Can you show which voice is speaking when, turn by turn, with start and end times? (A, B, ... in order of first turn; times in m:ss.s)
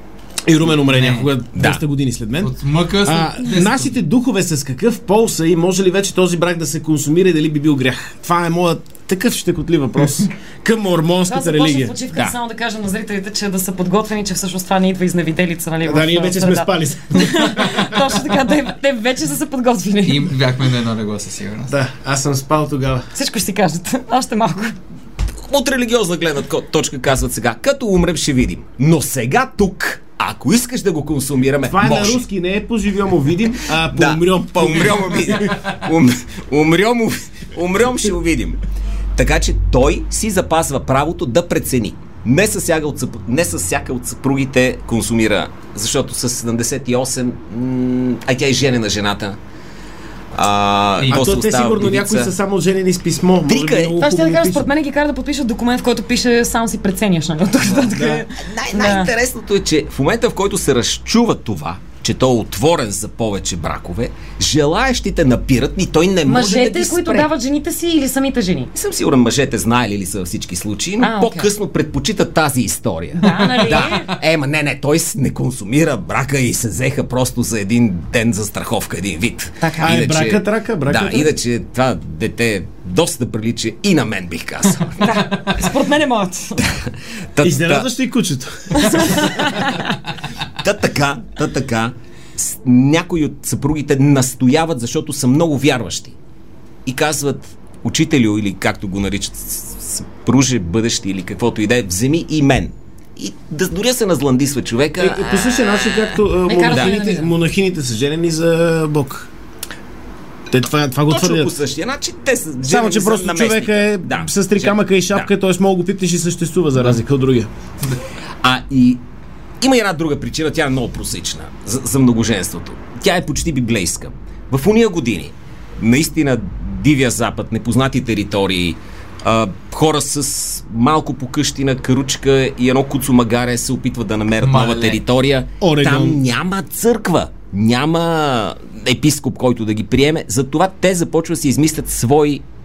0:00.5-0:12.0 A
0:00.9-0:01.3 B
0:01.5-0:01.8 C
0:02.4-0:03.9 B
0:11.3-0:20.3 D
0:15.8-0:18.1 A
0:20.0-0:21.7 B
0:21.7-0:23.1 A
0:23.1-0:24.8 D
0:25.5-0:32.2 C
0:31.6-0:35.5 A
0:33.9-0:38.6 C
0:39.2-0:49.4 C
0:50.3-0:52.3 C
0:51.1-0:54.6 A
0:53.5-0:54.0 C
0:54.0-0:59.1 D
0:57.6-0:57.9 B
0:57.9-0:58.2 A
0:58.4-1:07.3 C
1:06.2-1:08.7 D
1:08.7-1:25.6 C
1:11.0-1:11.5 D
1:13.2-1:14.1 D
1:13.2-1:14.1 B
1:19.6-1:19.9 D
1:19.8-1:21.3 A
1:25.0-1:26.6 D
1:26.6-1:27.9 C
1:27.4-1:29.5 A
1:28.8-1:29.8 D
1:30.6-1:36.1 C
1:36.8-1:46.2 C
1:45.0-1:49.3 A
1:46.5-1:47.3 D
1:46.7-1:47.0 C
1:50.5-1:51.5 A
1:51.1-1:55.3 C
1:52.6-1:57.5 A
1:58.4-1:59.0 C
1:59.6-2:22.4 C
2:14.4-2:15.0 B
2:15.6-2:16.2 A